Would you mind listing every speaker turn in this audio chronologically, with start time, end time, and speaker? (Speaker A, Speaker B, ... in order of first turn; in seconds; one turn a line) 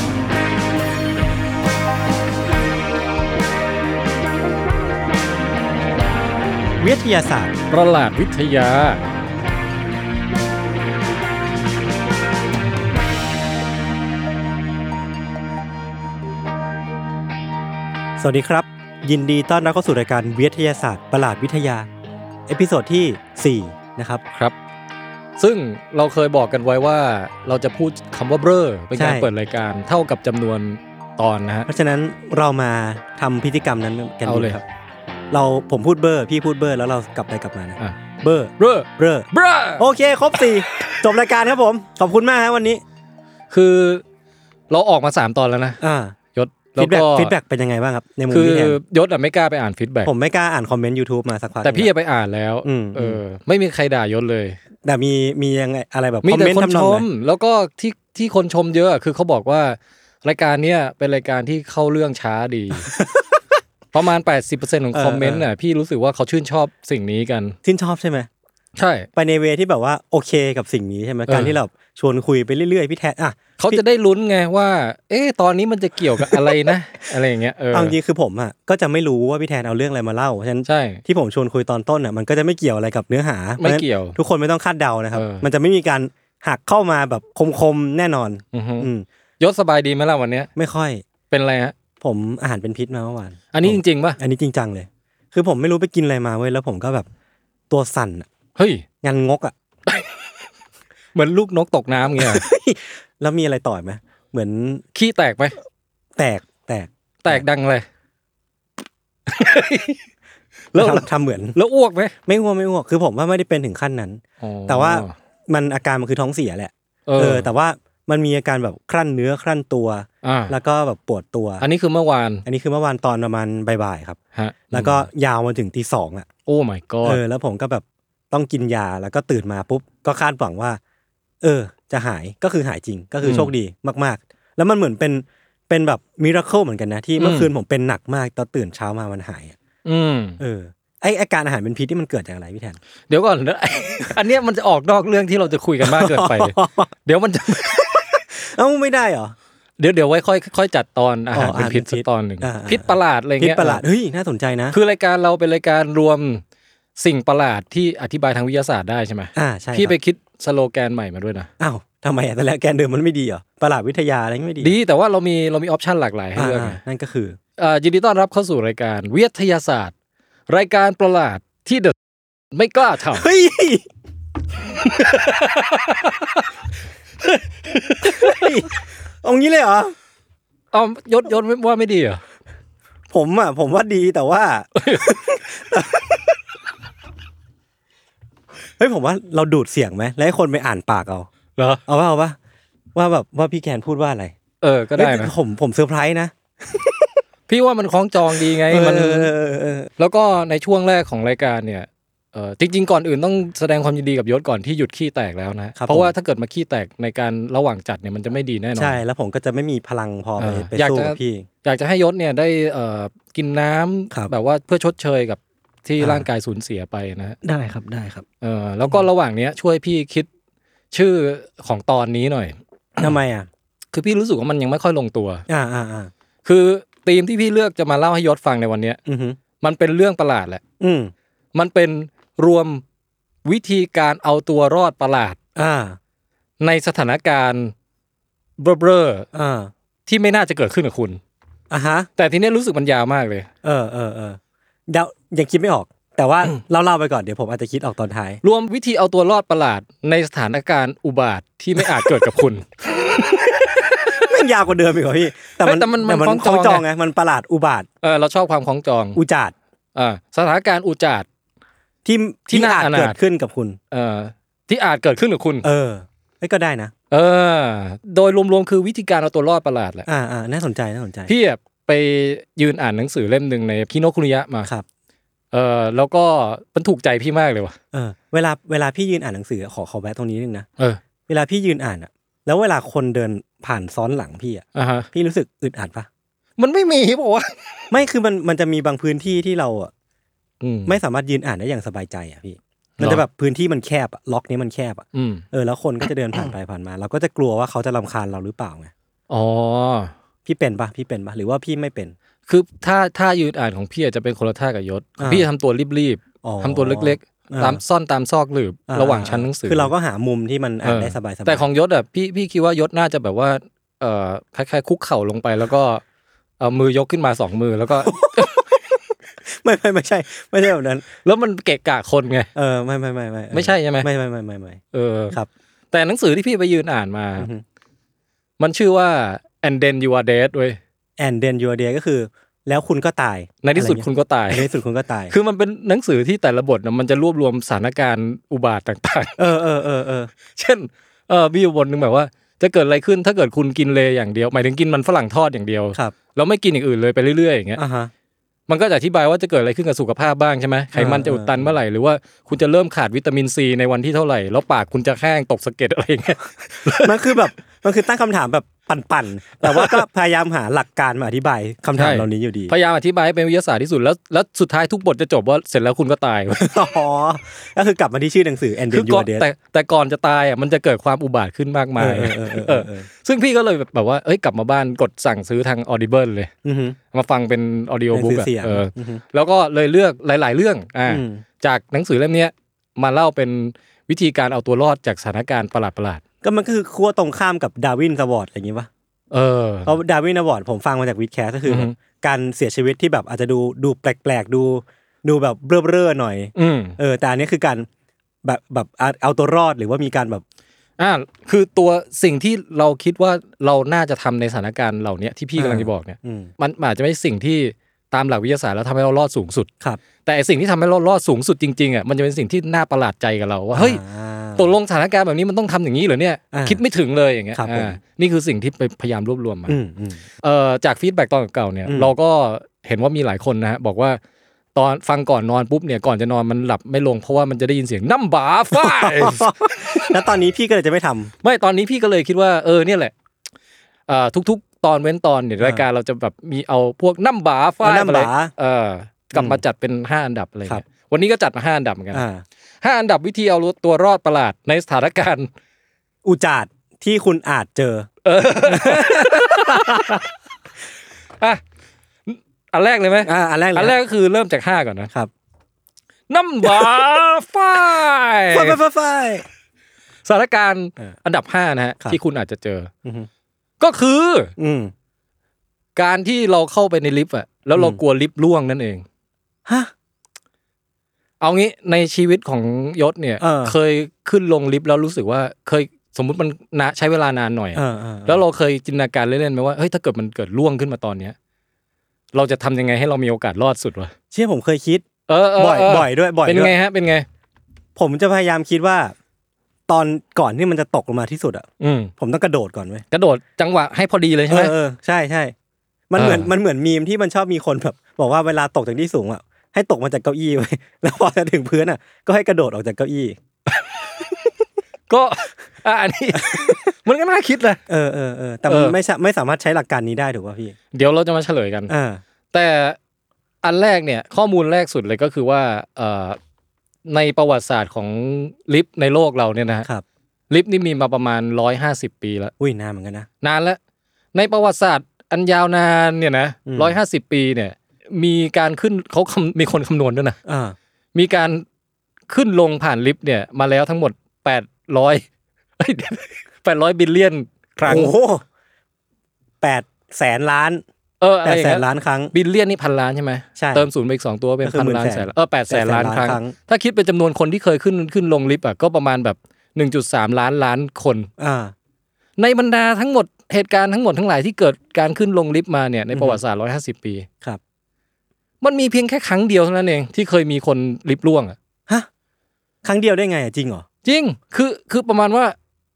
Speaker A: 6.8-7.5
Speaker B: 7.7-9.0
Speaker A: 18.2-21.9
Speaker A: 22.5-24.2
Speaker B: 25.4-31.7
Speaker A: 28.9-29.3
Speaker A: 31.7-34.6
Speaker B: 34.2-34.6
Speaker A: 35.3-42.8
Speaker B: 38.6-39.9
Speaker B: 43.5-44.0
Speaker B: 44.7-45.8
Speaker A: 45.8-46.1
Speaker B: 46.3-47.3
Speaker A: 46.8-48.8
Speaker B: 48.3-50.1
Speaker A: 50.0-51.9
Speaker B: 51.6-54.6
Speaker A: 52.6-53.2
Speaker A: 54.8-57.0
Speaker B: 56.2-62.9
Speaker A: 62.8-63.3
Speaker B: 63.9-67.5
Speaker A: 64.9-65.5
Speaker A: 67.6-68.3
Speaker B: 68.8-69.1
Speaker A: 69.1-73.8
Speaker B: 71.3-71.5
Speaker B: 73.6-77.9
Speaker A: 76.2-76.6
Speaker A: 77.7-89.0
Speaker B: 80.6-81.0
Speaker B: 83.6-84.2
Speaker B: 85.1-85.5
Speaker B: 88.5-88.9
Speaker B: 89.4-90.5
Speaker A: 90.5-91.0
Speaker B: 91.3-91.8
Speaker A: 92.0-97.1
Speaker B: 93.5-94.2
Speaker A: 97.7-98.3
Speaker B: 98.5-98.8
Speaker A: 99.0-99.5
Speaker B: 101.1-102.5
Speaker A: 102.1-104.8
Speaker B: 104.9-105.5
Speaker A: 106.2-107.4
Speaker B: 107.2-107.8
Speaker B: 109.3-110.0
Speaker B: 110.7-112.2
Speaker A: 110.7-111.5
Speaker A: 112.2-121.6
Speaker B: 114.4-115.1
Speaker B: 117.1-117.5
Speaker B: 120.2-120.5
Speaker B: 121.6-122.4
Speaker A: 122.4-124.2
Speaker B: 124.3-125.1
Speaker A: 124.7-126.3
Speaker B: 126.5-127.2
Speaker A: 127.0-130.8
Speaker A: 131.4-139.6
Speaker B: 133.2-133.5
Speaker B: 137.2-137.5
Speaker B: 139.8-140.4
Speaker A: 140.4-142.8
Speaker B: 143.1-148.0
Speaker A: 145.8-146.9
Speaker A: 147.5-149.3
Speaker B: 149.8-153.8
Speaker A: 151.3-154.8
Speaker B: 154.7-156.4
Speaker B: 157.0-161.5
Speaker A: 159.3-159.9
Speaker A: 161.6-164.7
Speaker B: 164.6-166.8
Speaker A: 166.3-167.4
Speaker B: 167.6-169.9
Speaker B: 170.5-171.9
Speaker B: 172.5-173.3
Speaker A: 173.1-173.8
Speaker B: 174.8-176.4
Speaker B: 177.4-178.5
Speaker A: 178.0-179.9
Speaker B: 180.7-182.2
Speaker A: 183.1-186.2
Speaker B: 184.8-185.3
Speaker A: 188.8-191.3
Speaker B: 191.6-191.8
Speaker A: 191.8-192.4
Speaker A: 192.9-194.3
Speaker B: 194.6-195.3
Speaker A: 194.9-197.2
Speaker B: 197.5-199.3
Speaker A: 198.3-199.9
Speaker B: 200.0-209.0
Speaker A: 205.8-206.1
Speaker A: 208.8-211.5
Speaker B: 210.4-217.4
Speaker A: 216.0-216.3
Speaker A: 217.4-218.2
Speaker B: 218.4-220.3
Speaker B: 220.9-223.1
Speaker A: 223.0-223.5
Speaker B: 223.9-225.4
Speaker A: 225.5-226.1
Speaker B: 226.4-229.0
Speaker A: 229.1-229.4
Speaker B: 229.6-230.6
Speaker A: 230.8-231.1
Speaker B: 231.5-232.8
Speaker B: 233.4-235.4
Speaker A: 235.5-236.0
Speaker B: 236.6-237.7
Speaker B: 238.6-239.3
Speaker A: 239.3-239.7
Speaker B: 240.1-241.2
Speaker A: 241.7-242.1
Speaker B: 242.2-243.5
Speaker A: 243.6-248.4
Speaker B: 248.4-252.7
Speaker A: 253.2-257.9
Speaker B: 255.6-256.8
Speaker B: 258.0-259.2
Speaker A: 259.1-259.5
Speaker B: 259.9-261.2
Speaker A: 262.0-263.8
Speaker B: 262.5-263.2
Speaker B: 263.9-265.7
Speaker A: 265.6-266.9
Speaker B: 267.1-270.1
Speaker A: 270.1-271.3
Speaker B: 271.3-274.7
Speaker B: 275.5-277.8
Speaker A: 277.9-280.7
Speaker A: 281.3-286.1
Speaker B: 284.7-285.1
Speaker B: 286.6-287.9
Speaker A: 287.9-289.9
Speaker B: 290.6-291.0
Speaker A: 290.9-298.9
Speaker B: 295.1-295.4
Speaker B: 299.3-300.1
Speaker A: 300.4-302.1
Speaker B: 302.5-309.9
Speaker A: 305.2-305.5
Speaker A: 306.4-307.8
Speaker A: 308.9-311.6
Speaker B: 310.8-316.0
Speaker B: 316.6-318.6
Speaker A: 317.9-318.8
Speaker A: 319.4-321.1
Speaker B: 321.2-322.5
Speaker A: 322.5-324.8
Speaker B: 323.5-324.1
Speaker B: 324.9-325.4
Speaker B: 325.9-327.5
Speaker A: 327.4-327.6
Speaker B: 328.6-330.8
Speaker A: 331.2-335.3
Speaker B: 333.6-334.7
Speaker B: 335.3-339.4
Speaker A: 339.4-340.3
Speaker B: 340.5-347.8
Speaker A: 347.8-348.1
Speaker B: 348.7-357.5
Speaker A: 350.9-351.7
Speaker A: 356.8-362.7
Speaker B: 359.6-360.0
Speaker B: 361.9-366.7
Speaker A: 366.5-369.4
Speaker B: 368.9-376.5
Speaker A: 372.0-373.1
Speaker A: 376.6-377.0
Speaker B: 377.1-386.2
Speaker A: 378.1-379.2
Speaker A: 381.1-381.4
Speaker A: 386.4-388.9
Speaker B: 389.3-389.9
Speaker A: 389.9-397.9
Speaker B: 391.7-391.9
Speaker B: 396.5-397.0
Speaker A: 398.4-400.4
Speaker B: 401.0-409.7
Speaker A: 405.6-406.5
Speaker B: 410.2-414.0
Speaker A: 413.7-414.7
Speaker B: 414.6-419.7
Speaker A: 416.5-416.8
Speaker A: 417.5-418.0
Speaker A: 419.7-420.2
Speaker B: 420.4-424.2
Speaker A: 421.9-422.1
Speaker B: 424.7-430.1
Speaker A: 428.7-431.3
Speaker B: 431.4-433.1
Speaker B: 434.1-442.2
Speaker A: 437.8-438.5
Speaker A: 439.3-439.6
Speaker A: 442.1-442.4
Speaker B: 442.8-445.5
Speaker A: 446.2-448.1
Speaker B: 448.2-450.2
Speaker A: 448.6-450.2
Speaker B: 452.3-455.1
Speaker A: 453.2-453.9
Speaker B: 456.3-458.8
Speaker A: 458.5-459.4
Speaker B: 460.2-462.9
Speaker B: 463.8-464.5
Speaker A: 464.6-464.9
Speaker B: 465.9-469.0
Speaker A: 467.8-468.0
Speaker A: 469.6-469.9
Speaker B: 471.4-481.3
Speaker A: 473.4-473.7
Speaker A: 477.7-478.4
Speaker B: 482.3-484.1
Speaker A: 484.3-485.1
Speaker B: 485.3-487.2
Speaker A: 485.6-486.7
Speaker A: 487.9-489.1
Speaker A: 489.9-493.0
Speaker B: 491.8-492.1
Speaker B: 493.1-494.7
Speaker A: 494.5-495.5
Speaker A: 496.1-503.4
Speaker B: 496.1-496.5
Speaker B: 505.1-507.8
Speaker A: 506.3-506.8
Speaker A: 507.9-510.8
Speaker B: 508.7-508.9
Speaker B: 510.9-511.9
Speaker A: 511.9-512.2
Speaker B: 512.5-513.0
Speaker B: 513.6-516.4
Speaker B: 517.1-519.9
Speaker B: 520.5-522.5
Speaker A: 522.6-523.3
Speaker B: 523.4-523.8
Speaker B: 524.3-530.4
Speaker A: 526.6-527.0
Speaker A: 530.4-530.8
Speaker B: 531.1-531.6
Speaker B: 532.3-535.2
Speaker B: 535.8-538.1
Speaker A: 537.8-538.4
Speaker A: 539.6-540.8
Speaker B: 541.2-551.3
Speaker A: 541.4-542.3
Speaker A: 543.5-543.9
Speaker A: 544.6-546.5
Speaker A: 551.4-551.7
Speaker B: 552.4-557.3
Speaker A: 556.1-556.4
Speaker B: 558.6-561.5
Speaker A: 562.8-563.9
Speaker B: 564.0-565.5